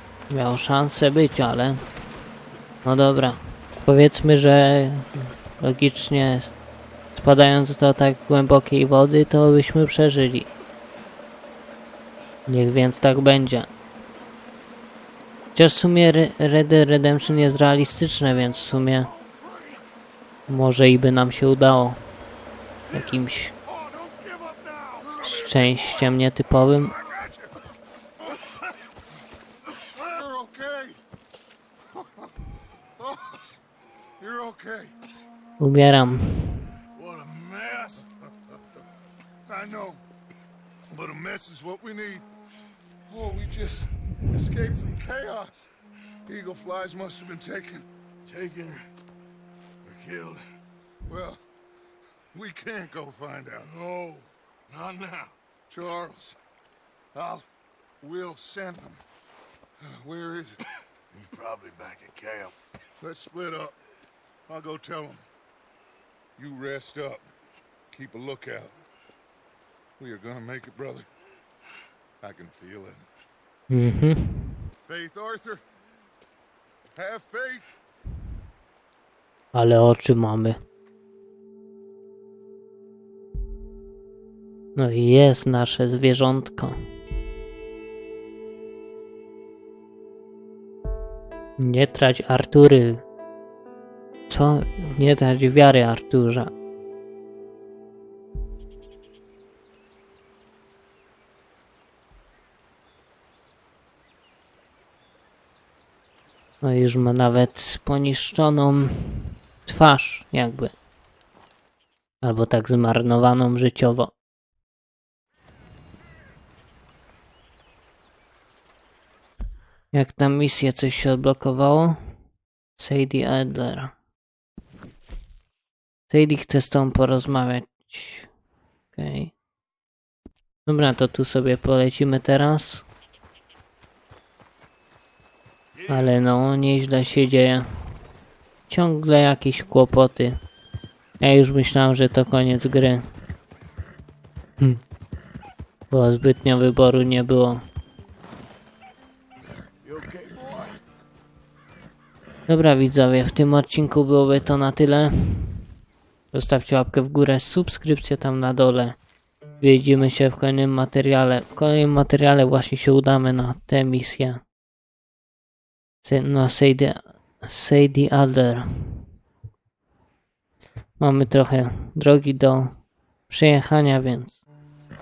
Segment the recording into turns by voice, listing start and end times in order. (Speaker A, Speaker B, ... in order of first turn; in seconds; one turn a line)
Speaker A: 0.3-1.8
Speaker A: 2.8-6.5
Speaker A: 7.2-10.5
Speaker A: 12.5-13.7
Speaker A: 15.6-19.1
Speaker B: 19.0-19.9
Speaker A: 20.5-22.0
Speaker A: 22.9-23.6
Speaker B: 22.9-26.2
Speaker A: 25.2-27.0
Speaker B: 26.9-27.6
Speaker B: 29.9-31.0
Speaker B: 31.9-32.3
Speaker B: 33.0-33.4
Speaker B: 34.2-35.0
Speaker A: 35.6-36.6
Speaker C: 36.9-38.0
Speaker B: 39.5-40.0
Speaker B: 40.9-42.3
Speaker B: 43.1-45.7
Speaker B: 46.3-47.9
Speaker C: 48.3-48.9
Speaker C: 49.8-50.4
Speaker B: 51.1-51.4
Speaker B: 52.3-53.7
Speaker C: 53.6-55.3
Speaker B: 55.7-56.4
Speaker B: 57.1-57.5
Speaker B: 58.0-59.0
Speaker B: 59.8-60.6
Speaker C: 61.1-62.5
Speaker B: 63.0-63.8
Speaker B: 64.5-65.2
Speaker B: 66.4-67.3
Speaker B: 67.9-68.8
Speaker B: 70.0-71.1
Speaker B: 72.2-73.1
Speaker A: 73.7-74.6
Speaker B: 74.8-75.6
Speaker B: 77.0-77.8
Speaker A: 79.5-80.6
Speaker A: 84.8-86.8
Speaker A: 91.6-93.0
Speaker A: 94.3-96.5
Speaker A: 106.6-110.8
Speaker A: 112.2-114.1
Speaker A: 119.9-122.0
Speaker A: 122.8-123.9
Speaker A: 126.1-128.3
Speaker A: 128.9-129.3
Speaker A: 130.7-132.8
Speaker C: 135.8-136.2
Speaker A: 135.9-137.7
Speaker A: 138.7-140.4
Speaker A: 141.2-143.0
Speaker A: 145.9-147.6
Speaker C: 149.8-150.8
Speaker A: 152.5-155.7
Speaker A: 156.3-159.0
Speaker A: 159.6-164.4
Speaker A: 166.0-169.1
Speaker A: 171.0-172.7
Speaker A: 173.3-174.4